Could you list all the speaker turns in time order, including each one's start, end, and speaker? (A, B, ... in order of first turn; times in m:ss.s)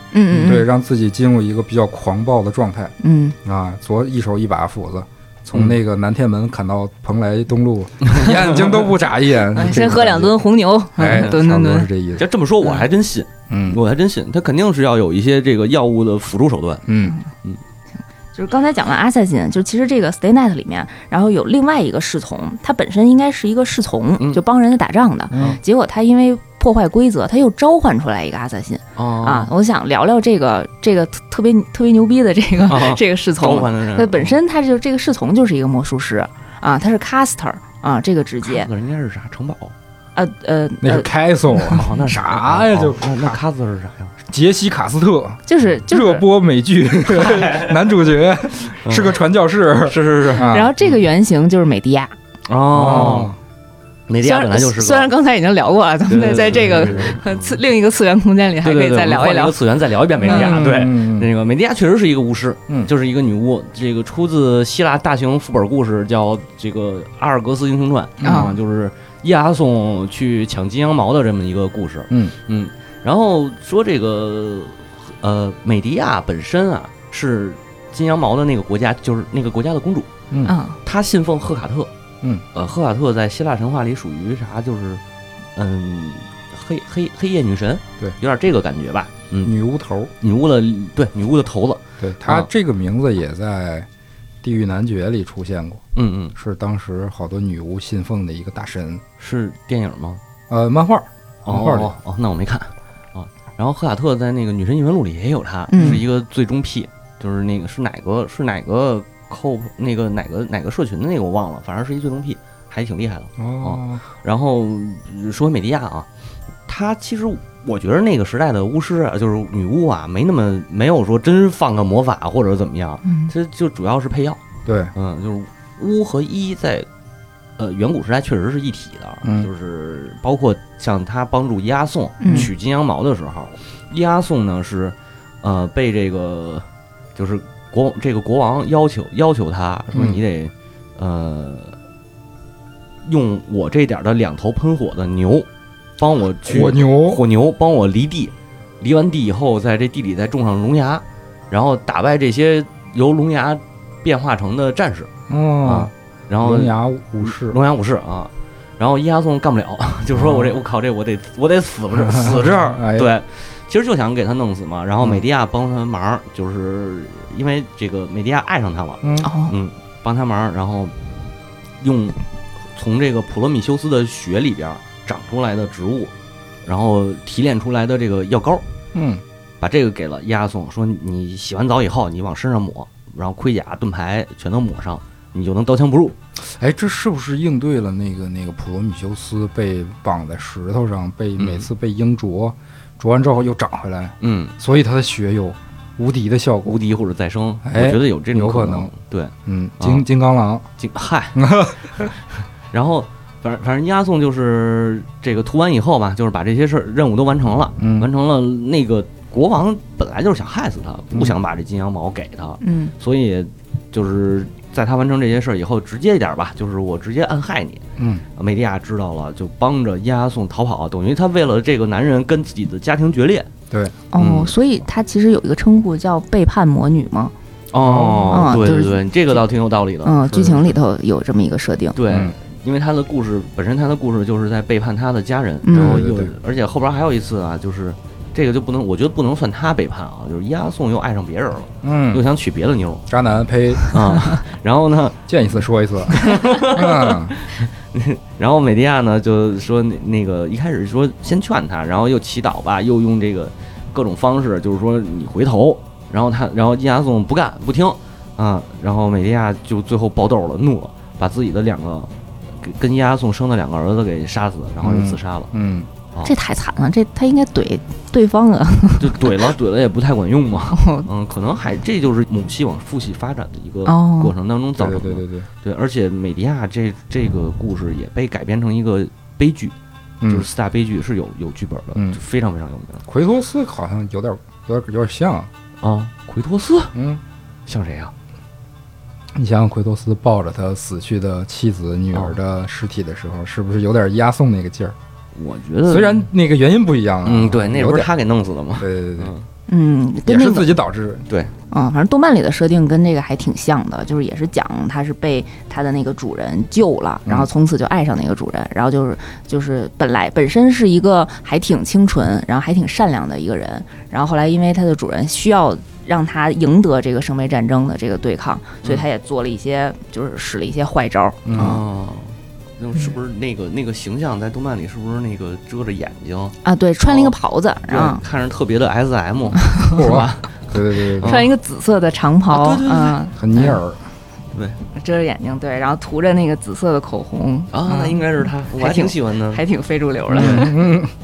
0:00.1-0:00.7 A
0:00.3-0:10.4 B
0:03.0-0:03.4 A
0:08.0-0:08.8 C
0:09.5-0:11.9 A
0:11.0-0:12.2 B
0:11.0-0:11.4 C
0:12.2-0:16.8 C
0:13.5-0:13.8 B
0:16.8-0:17.1 B
0:18.3-0:38.7 A
0:25.3-0:25.6 B
0:29.0-0:29.5 C
0:32.7-0:34.3 C
0:38.4-0:39.7 C
0:40.2-0:41.8 A
0:40.8-0:43.4 B
0:41.7-0:44.1 C
0:44.3-0:50.7 B
0:45.5-0:46.2 A
0:47.1-0:47.9 C
0:48.8-0:49.2 C
0:49.8-0:50.6 C
0:50.4-0:52.1 A
0:52.5-0:53.3 C
0:52.7-0:53.4 B
0:54.1-0:55.1 C
0:54.2-0:59.6 A
0:56.1-0:57.6 C
0:56.8-0:57.1 B
0:58.6-1:20.1 C
1:00.2-1:01.3 B
1:00.3-1:00.6 A
1:08.2-1:08.5 B
1:08.2-1:08.5 A
1:20.4-1:20.8 A
1:20.8-1:21.9 C
1:22.5-1:25.0 C
1:25.6-1:29.5 C
1:29.4-1:30.1 B
1:30.2-1:32.5 C
1:32.0-1:33.9 B
1:34.4-1:35.8 B
1:35.9-1:36.3 C
1:36.3-1:39.0 B
1:39.2-1:40.2 C
1:40.5-1:41.9 B
1:41.4-1:56.1 C
1:45.7-1:46.0 A
1:45.8-1:46.0 B
1:53.4-1:54.0 B
1:56.7-2:04.4 C
2:03.0-2:03.3 A
2:04.6-2:04.9 B
2:05.0-2:06.9 C
2:07.6-2:21.7 C
2:09.2-2:09.5 B
2:12.2-2:12.5 A
2:19.9-2:20.2 B
2:23.0-2:25.5 C
2:26.0-2:35.1 C
2:26.4-2:27.2 B
2:35.3-2:37.6 B
2:35.6-2:50.9 C
2:40.1-2:40.6 B
2:42.0-2:43.1 B
2:49.0-2:49.3 B
2:49.2-2:49.5 A
2:51.8-2:52.2 C
2:52.7-2:56.1 C
2:56.6-2:58.6 C
2:58.9-2:59.2 B
2:59.6-3:06.2 C
3:06.4-3:16.8 B
3:11.4-3:11.7 C
3:14.2-3:14.5 C
3:16.6-3:20.0 C
3:17.6-3:18.9 B
3:19.4-3:20.6 B
3:20.8-3:21.4 C
3:21.3-3:22.1 B
3:22.7-3:37.8 C
3:27.8-3:28.1 B
3:32.6-3:32.9 A
3:38.0-3:38.2 B
3:38.4-3:43.5 C
3:43.7-3:44.0 B
3:44.1-3:47.3 A
3:44.2-3:44.5 C
3:47.7-3:50.2 C
3:47.8-3:48.6 B
3:48.3-3:49.4 A
3:50.0-3:52.0 A
3:50.3-3:50.8 B
3:51.9-4:03.0 C
3:52.1-3:52.3 B
3:55.6-3:56.0 A
3:55.7-3:56.3 B
4:01.8-4:02.2 B
4:03.1-4:03.8 B
4:03.9-4:05.2 C
4:05.3-4:07.4 B
4:06.2-4:25.5 C
4:24.8-4:25.9 B
4:26.2-4:29.5 A
4:29.0-4:39.7 C
4:30.7-4:31.1 A
4:33.8-4:34.3 A
4:34.8-4:35.5 B
4:40.2-4:40.5 B
4:40.2-4:43.0 C
4:43.1-4:45.5 B
4:45.8-4:46.9 C
4:46.9-4:47.2 B
4:47.7-4:48.1 C
4:49.3-4:54.9 B
4:55.3-4:56.3 C
4:55.9-4:58.1 B
4:57.2-4:59.5 C
4:58.8-4:59.3 B
4:59.7-5:00.7 A
5:00.3-5:01.3 B
5:00.4-5:00.7 C
5:01.7-5:21.8 A
5:21.4-5:21.8 B
5:21.5-5:27.3 C
5:26.6-5:28.2 A
5:27.9-5:30.6 C
5:29.5-5:30.0 A
5:29.9-5:31.4 B
5:31.2-5:31.5 C
5:31.2-5:33.8 A
5:32.5-5:33.2 C
5:33.4-5:34.0 B
5:34.5-5:34.8 C
5:34.9-5:38.2 A
5:37.7-5:39.6 C
5:38.8-5:41.0 A
5:40.3-5:41.1 B
5:40.3-5:40.7 C